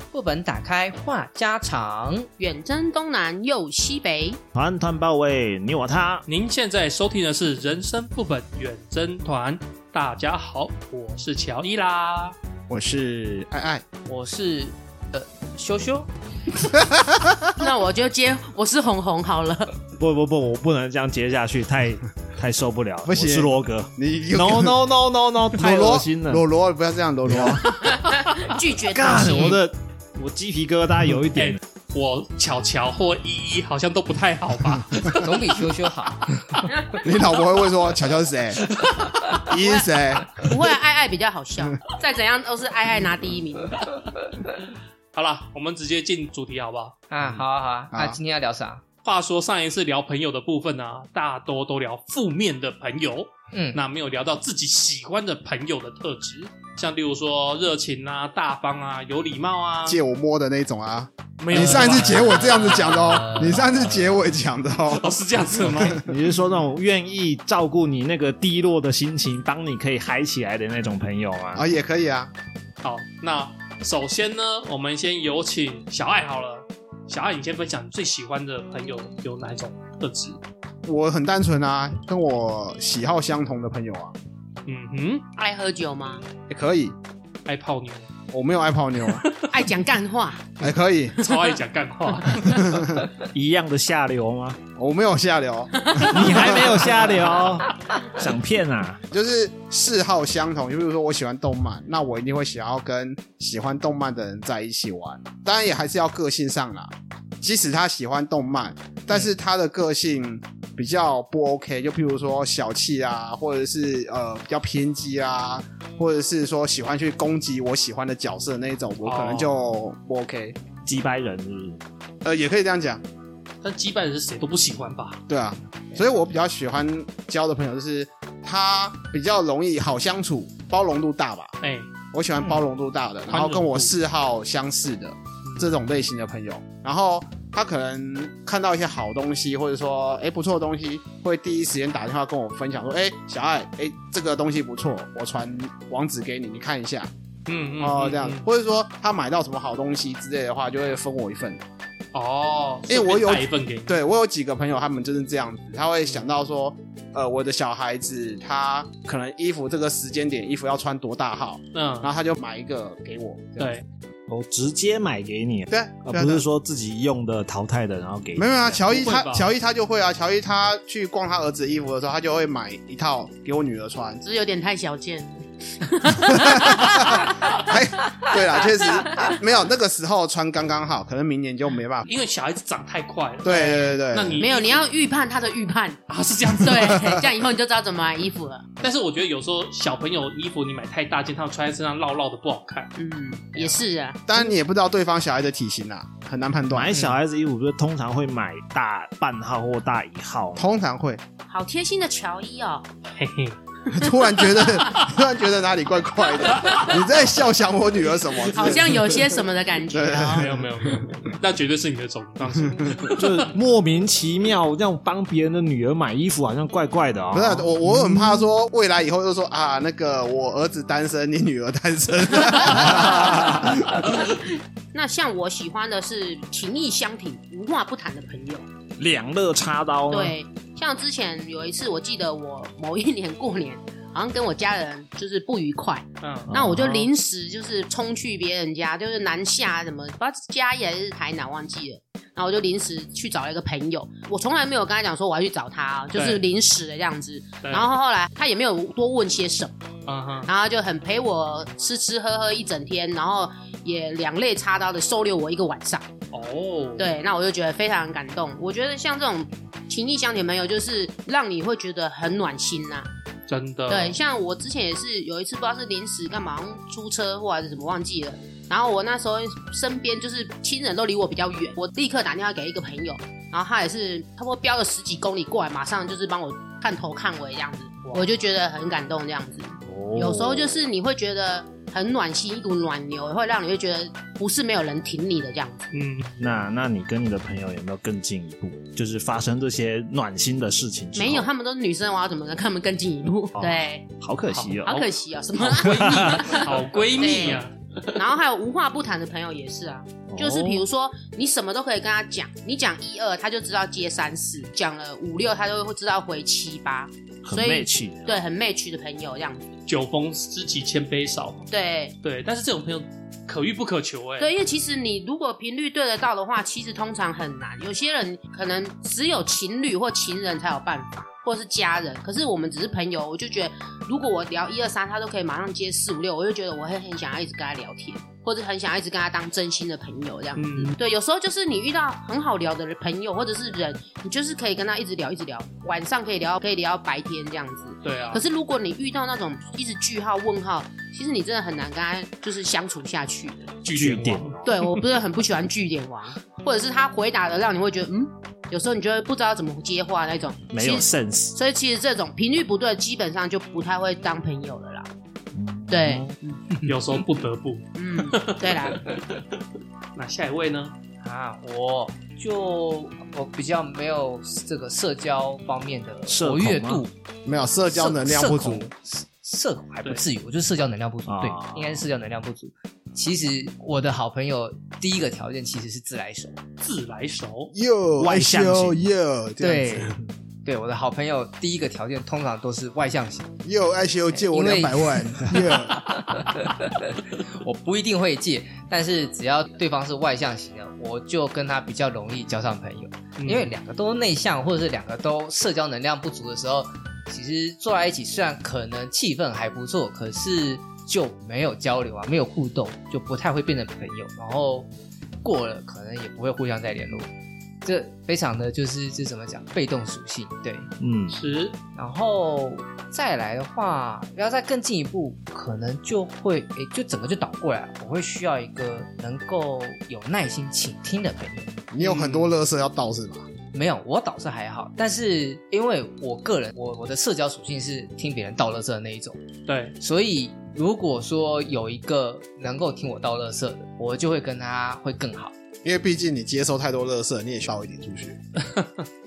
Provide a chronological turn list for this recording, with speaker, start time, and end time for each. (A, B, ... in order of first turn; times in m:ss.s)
0:00.1-0:02.3 A
0:02.4-0:04.4 B
0:04.5-0:06.2 C
0:06.3-0:12.4 D
0:12.7-0:13.8 E
0:14.0-0:16.1 A
0:16.7-0:17.6 E
0:17.6-0:19.8 B
0:20.0-0:26.4 C
0:23.0-0:24.8 E
0:25.5-0:27.8 E
0:27.3-0:27.6 C
0:27.7-0:29.6 B
0:28.9-0:31.6 C
0:31.3-0:35.7 D
0:35.1-0:36.4 A
0:37.0-0:38.7 E
0:39.4-0:40.4 E
0:39.5-0:44.0 B
0:45.1-0:47.0 D
0:47.1-0:48.8 A
0:47.9-0:48.2 E
0:49.0-1:00.0 D
0:53.5-0:53.8 A
0:59.8-1:06.1 E
1:01.4-1:03.2 D
1:01.5-1:03.7 A
1:04.9-1:06.0 D
1:05.7-1:11.6 C
1:11.6-1:12.3 E
1:12.8-1:20.4 D
1:20.9-1:24.2 E
1:24.7-1:25.3 D
1:25.4-1:26.2 B
1:26.5-1:27.0 E
1:27.4-1:28.1 D
1:28.3-1:29.2 E
1:29.2-1:29.5 D
1:29.5-1:30.5 B
1:30.6-1:31.2 E
1:31.2-1:31.5 B
1:31.2-1:32.9 D
1:32.5-1:33.0 E
1:33.2-1:34.6 C
1:34.8-1:37.1 E
1:35.8-1:36.4 B
1:36.1-1:39.0 C
1:39.1-2:00.6 E
1:59.0-1:59.6 D
2:00.8-2:01.8 C
2:02.2-2:03.0 E
2:03.6-2:05.2 D
2:05.3-2:11.5 E
2:11.6-2:11.9 D
2:12.1-2:27.1 E
2:13.3-2:13.9 D
2:15.4-2:15.7 D
2:27.5-2:28.4 D
2:27.8-2:31.6 E
2:32.1-2:34.0 D
2:32.9-2:43.8 E
2:41.7-2:42.1 D
2:43.6-2:43.8 D
2:44.3-2:48.8 C
2:45.7-2:46.4 E
2:48.4-2:54.2 E
2:48.9-2:49.5 D
2:54.2-2:57.8 B
2:56.2-3:02.1 E
2:58.6-2:59.4 B
3:02.1-3:04.8 D
3:03.4-3:04.5 E
3:04.4-3:08.8 B
3:06.1-3:07.2 D
3:07.0-3:07.2 E
3:08.8-3:12.9 D
3:13.0-3:14.5 B
3:14.3-3:17.0 E
3:16.7-3:20.7 C
3:20.6-3:21.2 E
3:21.5-3:22.9 B
3:23.2-3:23.6 D
3:23.9-3:25.0 B
3:23.9-3:31.3 E
3:26.5-3:26.9 B
3:28.5-3:30.5 B
3:30.3-3:33.2 D
3:32.7-3:33.1 E
3:33.1-3:37.7 C
3:37.3-3:44.1 E
3:42.9-3:43.7 C
3:44.9-3:48.7 B
3:49.0-3:50.4 C
3:50.1-4:09.7 B
3:56.2-3:56.5 D
3:56.5-3:57.1 C
4:06.1-4:06.4 D
4:07.6-4:07.9 D
4:10.1-4:10.5 D
4:10.4-4:16.1 B
4:16.3-4:17.1 D
4:17.0-4:23.1 B
4:23.5-4:24.2 D
4:23.9-4:45.9 B
4:39.8-4:40.8 C
4:45.9-4:46.7 D
4:46.4-4:51.5 C
4:51.1-4:54.1 B
4:53.6-4:55.0 C
4:54.5-4:55.1 D
4:54.8-5:09.7 B
4:55.6-4:58.2 D
4:55.8-4:56.6 C
5:00.3-5:00.8 C
5:07.4-5:08.4 C
5:09.9-5:11.7 D
5:11.7-5:12.2 B
5:12.2-5:14.5 D
5:14.4-5:43.8 B
5:30.6-5:31.0 D
5:38.0-5:38.4 D
5:43.8-5:44.6 D
5:44.0-5:44.8 C
5:44.6-5:55.1 B
5:50.7-5:51.6 C
5:55.5-5:56.4 C
5:55.9-5:56.6 B
5:56.8-5:59.6 D
5:57.9-5:59.2 B
6:00.1-6:00.9 D
6:01.2-6:07.1 A
6:06.3-6:07.0 C
6:07.4-6:08.9 E
6:07.9-6:16.6 A
6:11.3-6:12.0 C
6:16.8-6:17.7 D
6:17.7-6:20.1 E
6:18.2-6:19.1 C
6:19.6-6:23.6 A
6:23.6-6:26.0 E
6:24.3-6:44.9 A
6:33.4-6:33.7 D
6:45.4-6:47.3 A
6:47.8-6:50.9 A
6:51.0-6:51.4 C
6:51.3-6:51.8 D
6:51.9-7:01.8 A
7:01.9-7:03.5 E
7:02.0-7:02.5 D
7:03.7-7:09.4 A
7:09.7-7:10.0 D
7:10.0-7:15.5 A
7:15.8-7:18.4 E